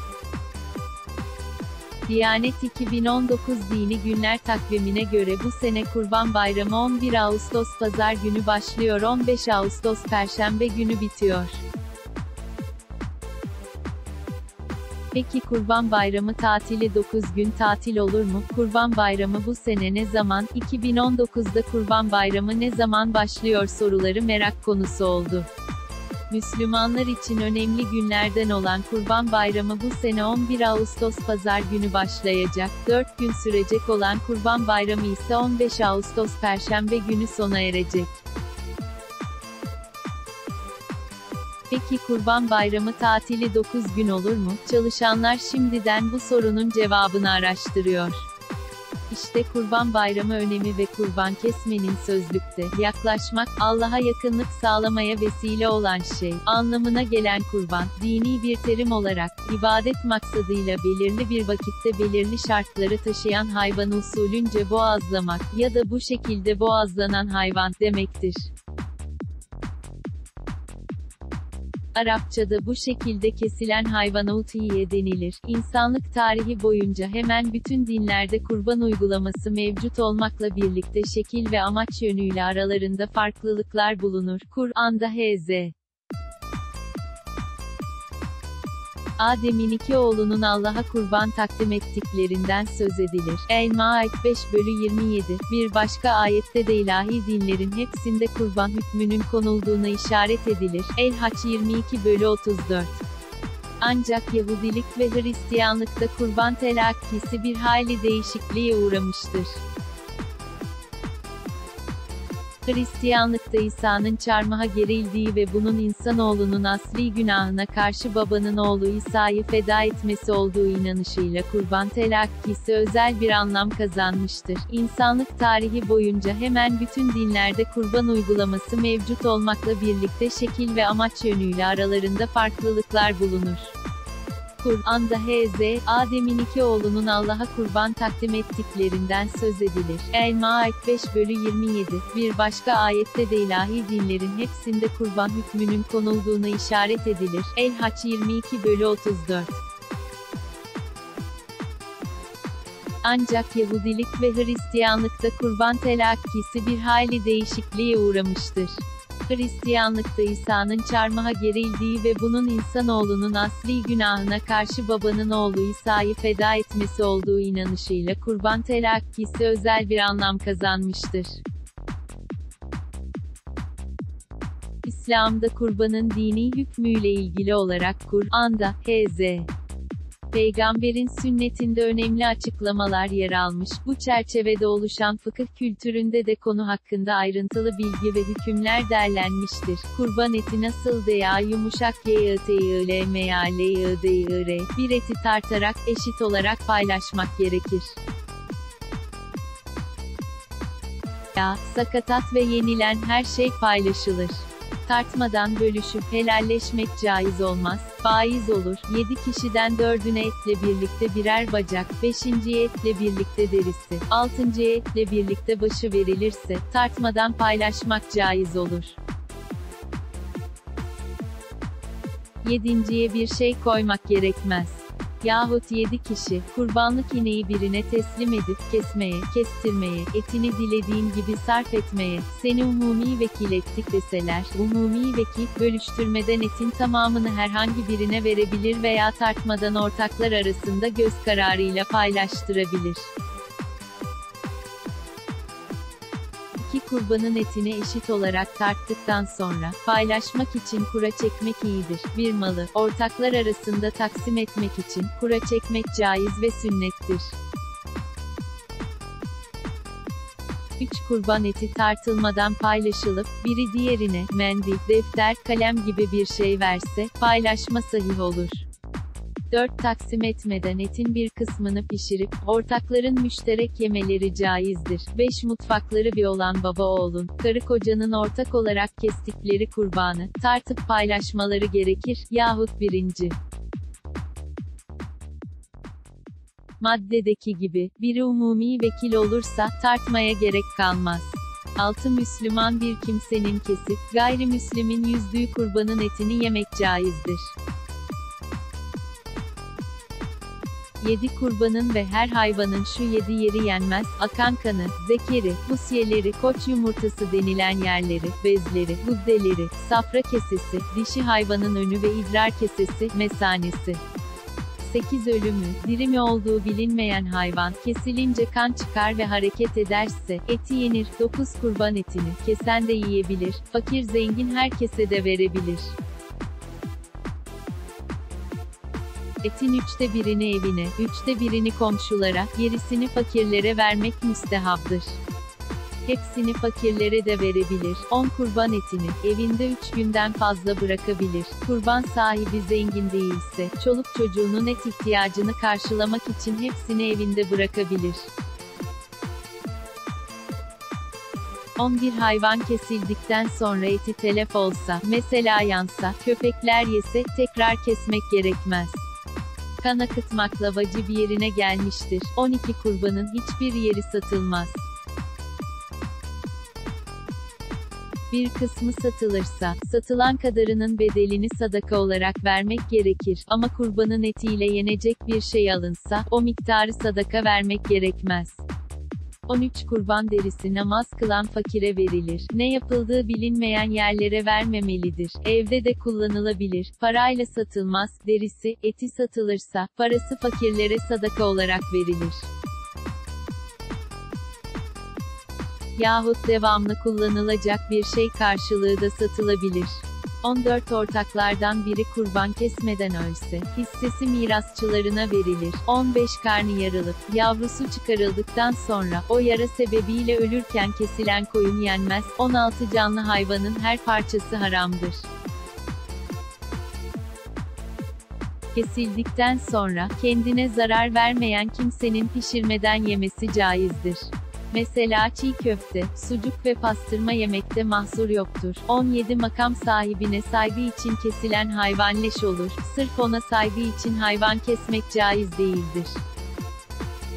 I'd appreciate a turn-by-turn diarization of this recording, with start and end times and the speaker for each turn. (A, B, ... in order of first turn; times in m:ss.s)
0:02.1-0:11.6 A
0:15.1-0:25.5 A
0:26.3-0:38.2 A
0:41.7-0:48.3 A
0:49.1-1:08.5 A
1:11.9-1:25.7 A
1:29.2-1:43.0 A
1:43.8-1:49.6 A
1:52.6-2:13.7 A
2:14.6-2:29.6 A
2:33.0-2:51.4 A
2:54.8-2:59.5 A
3:00.3-3:18.0 A
3:21.3-3:39.0 A
3:42.4-4:03.1 A
4:06.5-4:17.4 A
4:20.8-4:28.6 A
4:29.5-4:43.4 A
4:46.8-4:57.5 A
5:01.0-5:14.0 A
5:14.8-5:26.0 A
5:29.4-5:35.2 A
5:36.0-5:48.3 A
5:51.8-5:59.0 A
5:59.8-6:04.8 A
6:08.3-6:18.6 A
6:19.5-6:32.5 A
6:36.0-6:55.3 A
6:58.7-7:16.2 A